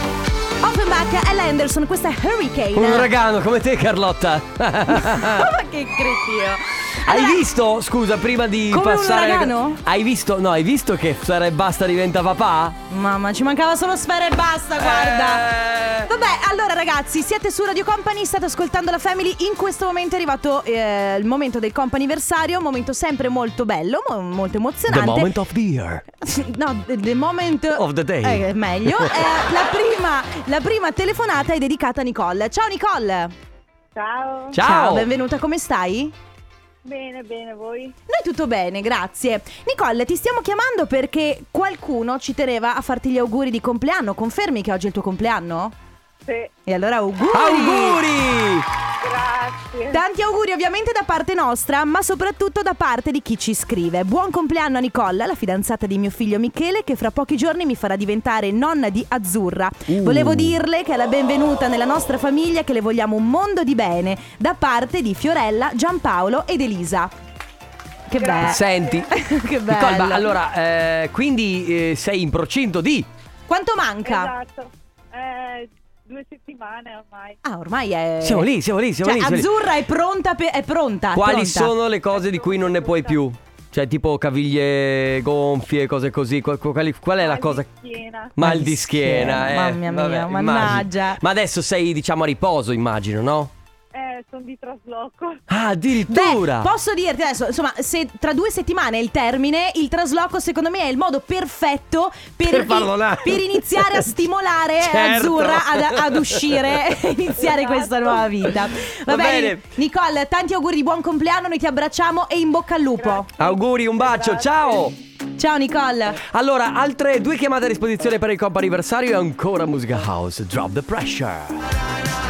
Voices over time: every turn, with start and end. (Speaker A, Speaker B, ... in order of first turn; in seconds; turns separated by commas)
Speaker A: 0.6-3.1, Speaker B: 2.8-5.5, Speaker A: 4.9-7.4, Speaker B: 7.1-12.8, Speaker A: 8.7-9.8, Speaker A: 12.9-15.5, Speaker B: 14.8-16.1, Speaker A: 16.1-25.3, Speaker B: 24.9-26.0, Speaker A: 26.2-33.3, Speaker B: 27.7-29.3, Speaker C: 34.0-34.6, Speaker B: 34.5-35.1, Speaker A: 34.6-36.1, Speaker C: 36.8-38.0, Speaker A: 38.1-45.8, Speaker C: 46.2-46.5, Speaker A: 46.7-48.0, Speaker B: 47.3-48.7, Speaker C: 49.0-50.0, Speaker A: 49.9-67.1, Speaker B: 59.9-60.5, Speaker A: 68.1-70.3, Speaker C: 68.2-69.0, Speaker B: 68.4-69.1, Speaker B: 69.7-73.1, Speaker A: 73.5-74.3, Speaker C: 74.0-77.4, Speaker A: 77.4-78.5, Speaker B: 78.2-79.5, Speaker A: 79.0-81.7, Speaker B: 81.1-87.7, Speaker C: 82.1-83.2, Speaker C: 87.2-88.3, Speaker B: 88.4-93.5, Speaker A: 88.4-91.2, Speaker C: 93.9-95.4, Speaker B: 95.5-96.7, Speaker A: 96.1-113.3, Speaker B: 102.5-104.1, Speaker B: 104.8-106.8, Speaker C: 107.4-108.2, Speaker B: 109.1-109.7, Speaker C: 113.0-114.9, Speaker B: 113.4-115.0, Speaker A: 115.4-116.2, Speaker B: 116.2-121.6